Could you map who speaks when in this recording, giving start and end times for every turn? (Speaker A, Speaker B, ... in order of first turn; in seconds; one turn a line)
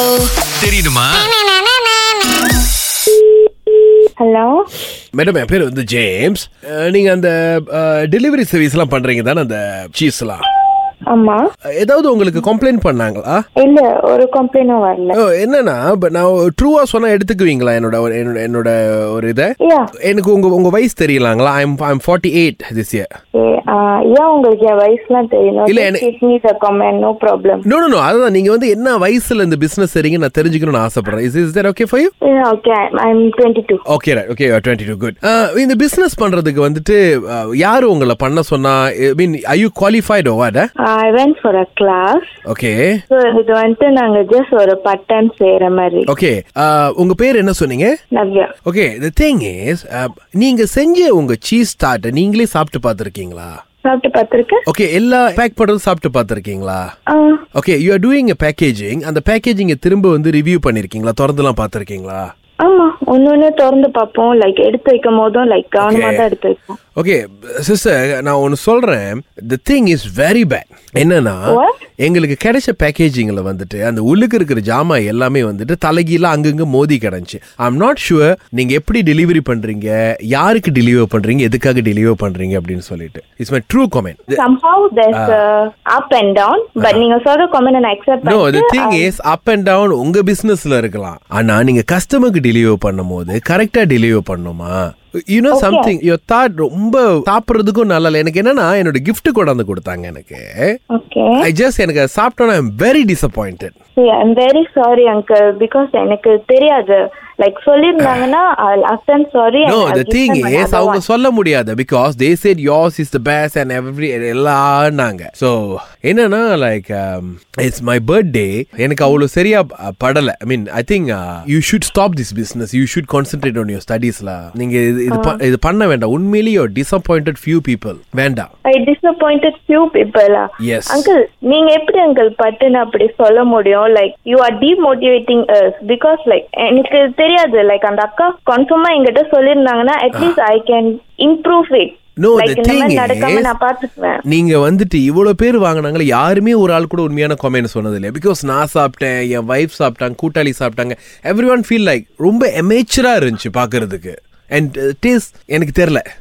Speaker A: 0.4-1.3
Speaker B: 4.2-4.5
Speaker A: 5.2-10.4
Speaker B: 11.1-11.4
Speaker A: 11.8-13.4
Speaker B: 13.6-15.2
Speaker A: 15.2-19.5
Speaker B: 19.6-19.9
Speaker A: 20.1-23.1
Speaker B: 23.4-27.6
Speaker A: 25.7-26.0
Speaker A: 27.7-32.1
Speaker B: 32.2-33.8
Speaker A: 33.9-40.7
Speaker B: 40.8-42.3
Speaker A: 42.5-43.0
Speaker B: 43.1-46.1
Speaker A: 46.1-47.9
Speaker B: 48.1-48.5
Speaker A: 48.7-53.5
Speaker B: 53.9-54.6
Speaker A: 54.7-56.9
Speaker B: 57.1-57.4
Speaker A: 57.5-62.3
Speaker B: 62.6-66.8
Speaker A: 65.8-66.2
Speaker A: 67.0-84.4
Speaker B: 71.5-71.8
Speaker B: 84.3-89.1
Speaker A: 88.2-94.7
Speaker A: 95.3-100.7
Speaker B: 95.5-95.9
Speaker B: 100.9-101.4
Speaker A: 101.4-103.7
Speaker B: 104.0-111.0
Speaker A: 108.0-108.2
Speaker A: 109.7-128.5
Speaker B: 125.1-125.4
Speaker B: 128.7-144.2
Speaker A: 130.6-131.1
Speaker A: 142.2-143.5
Speaker A: 144.3-156.1